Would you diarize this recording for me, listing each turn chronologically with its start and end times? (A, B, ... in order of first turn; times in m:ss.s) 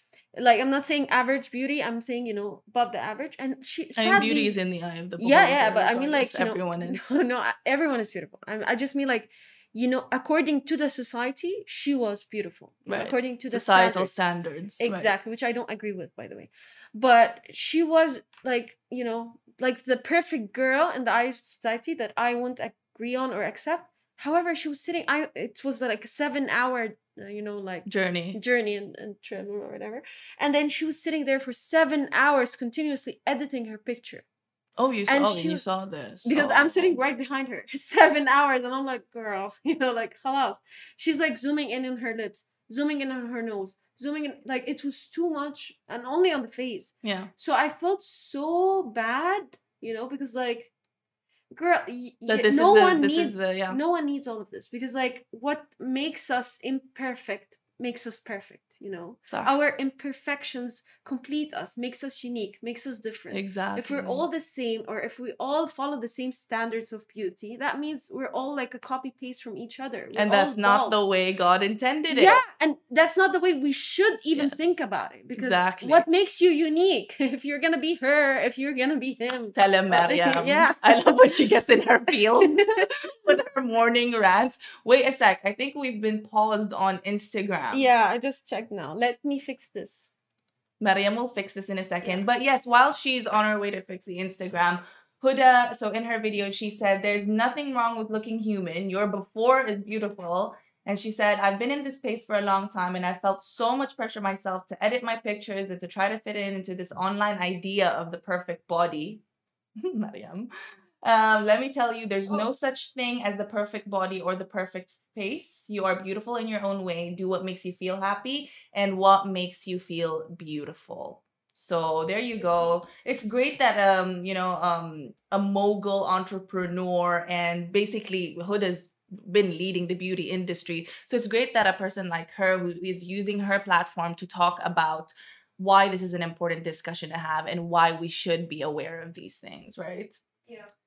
0:00.3-0:04.6 A
0:04.0-0:07.1 B
0:05.2-0:14.2 A
0:12.9-0:15.1 B
0:14.8-0:34.2 A
0:27.9-0:28.4 B
0:34.8-0:37.0 B
0:35.1-0:35.7 A
0:36.2-0:50.7 A
0:47.0-0:47.3 B
0:51.5-1:11.0 A
0:52.3-0:53.8 B
1:03.3-1:04.3 B
1:10.2-1:12.4 B
1:12.1-1:21.4 A
1:14.4-1:14.8 B
1:15.4-1:16.0 B
1:19.5-1:27.9 B
1:22.5-1:22.9 A
1:27.7-1:30.1 A
1:30.8-1:49.2 B
1:49.8-1:50.5 B
1:51.0-2:20.2 B